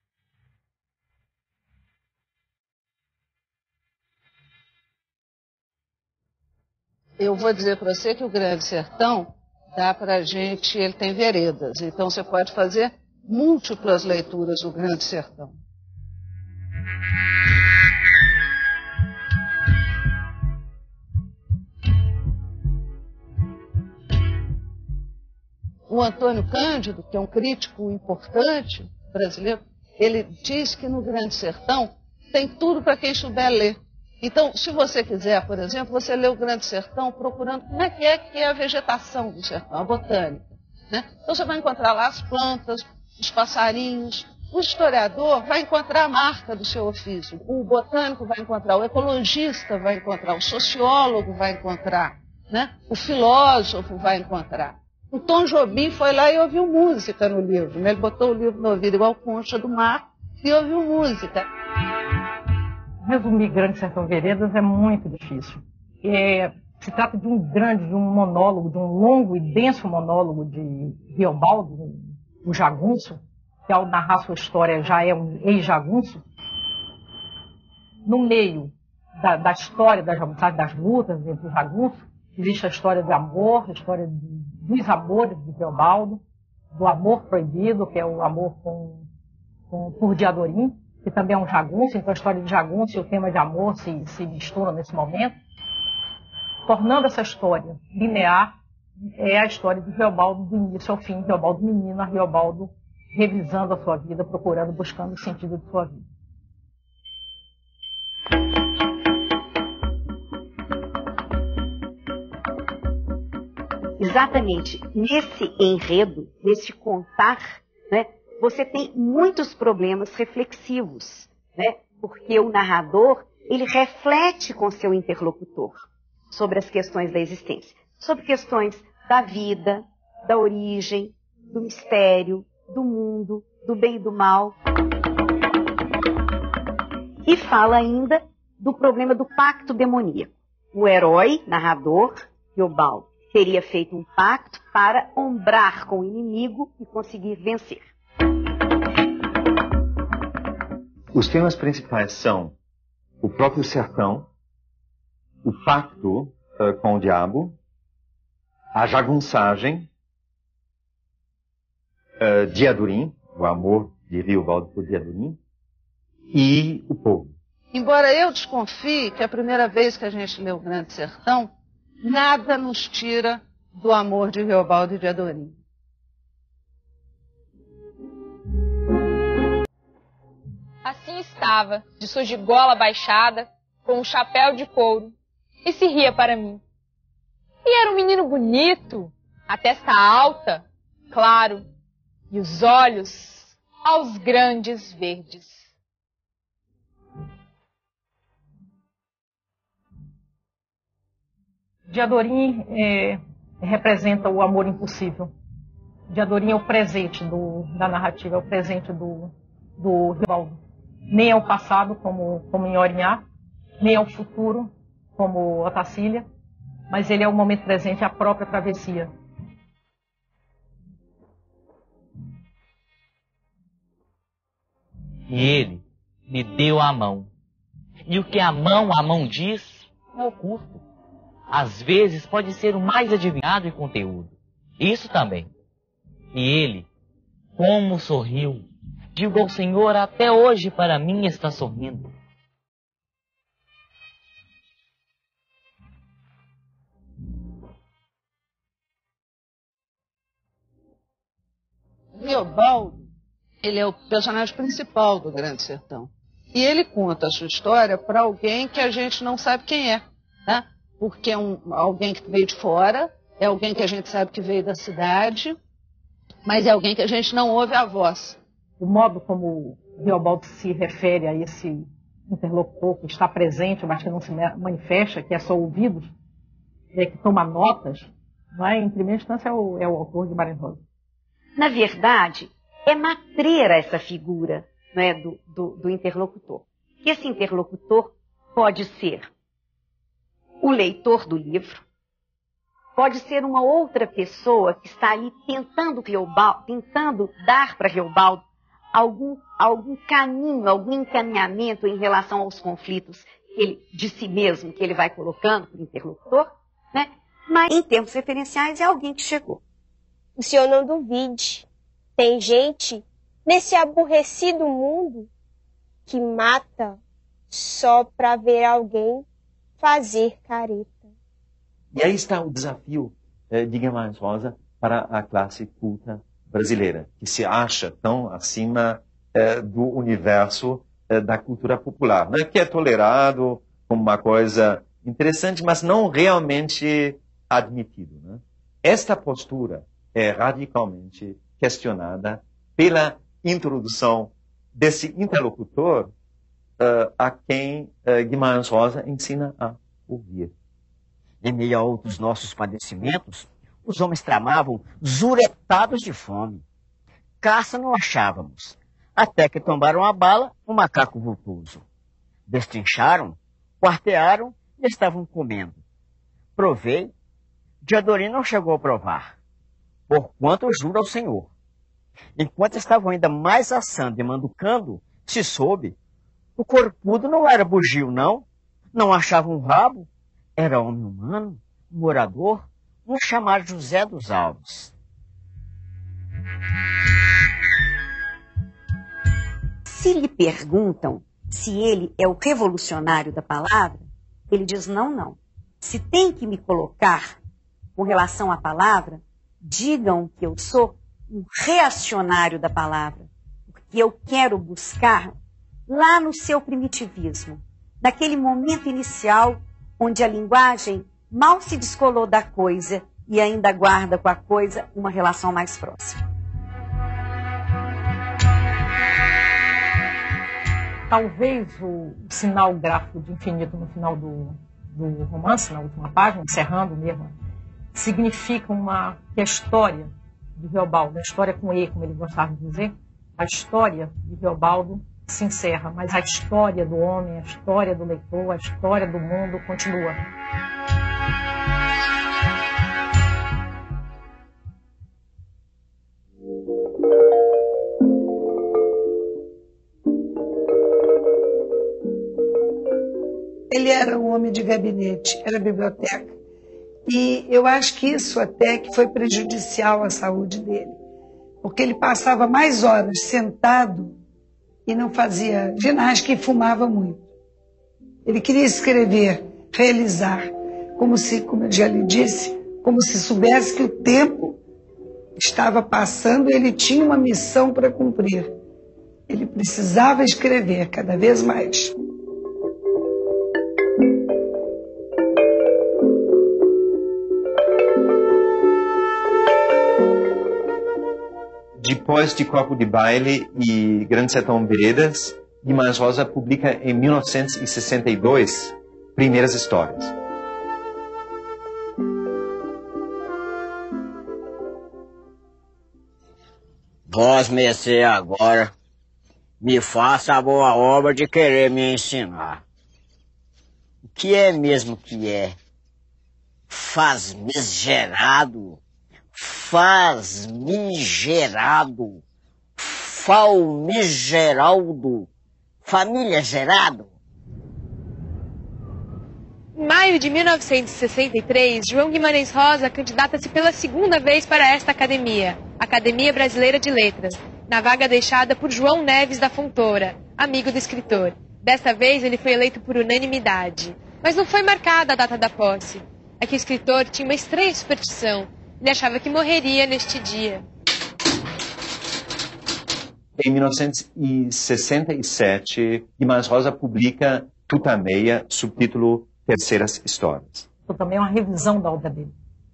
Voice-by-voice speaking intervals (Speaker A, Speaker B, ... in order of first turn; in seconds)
Speaker A: 7.2-15.6, 25.9-61.5, 167.7-171.5, 172.0-175.6, 252.1-253.1, 253.6-265.6, 266.4-268.4
Speaker B: 63.0-76.2, 78.0-86.2, 86.7-89.1, 89.7-95.4, 96.7-98.5, 99.2-106.1, 201.9-205.3, 206.1-210.6, 211.1-213.3, 213.8-216.3, 216.9-219.1, 268.8-276.1, 276.9-280.8, 421.1-427.3, 427.9-440.2, 560.9-562.3
Speaker C: 114.0-134.6, 137.3-147.9, 281.6-289.3, 290.6-291.8, 292.9-309.6, 389.9-397.4, 397.9-405.3, 405.9-416.2
Speaker D: 151.1-152.6, 153.2-154.3, 155.4-157.6, 158.7-159.9, 162.2-165.4, 166.3-167.3, 321.9-346.1, 346.8-350.5, 491.8-500.1, 553.4-560.7
Speaker E: 180.8-186.6, 187.6-191.7, 192.3-195.7
Speaker F: 225.3-227.3, 228.1-230.8, 231.5-235.5, 236.3-236.9, 237.6-242.1
Speaker G: 310.4-311.6, 312.2-315.3, 316.1-317.0, 317.5-319.2, 319.8-321.1
Speaker H: 351.4-356.6, 357.4-361.8, 362.5-365.8, 366.6-367.1, 367.8-369.3, 370.1-371.5, 372.4-375.9, 376.6-384.9, 507.1-508.7, 509.6-512.6, 514.0-515.6, 516.7-518.8, 519.3-522.2, 522.8-525.3, 525.9-527.1
Speaker I: 453.7-456.3, 457.1-461.0, 461.6-464.1, 464.9-467.3, 468.3-474.6, 475.4-478.5, 479.3-481.9
Speaker J: 529.8-550.6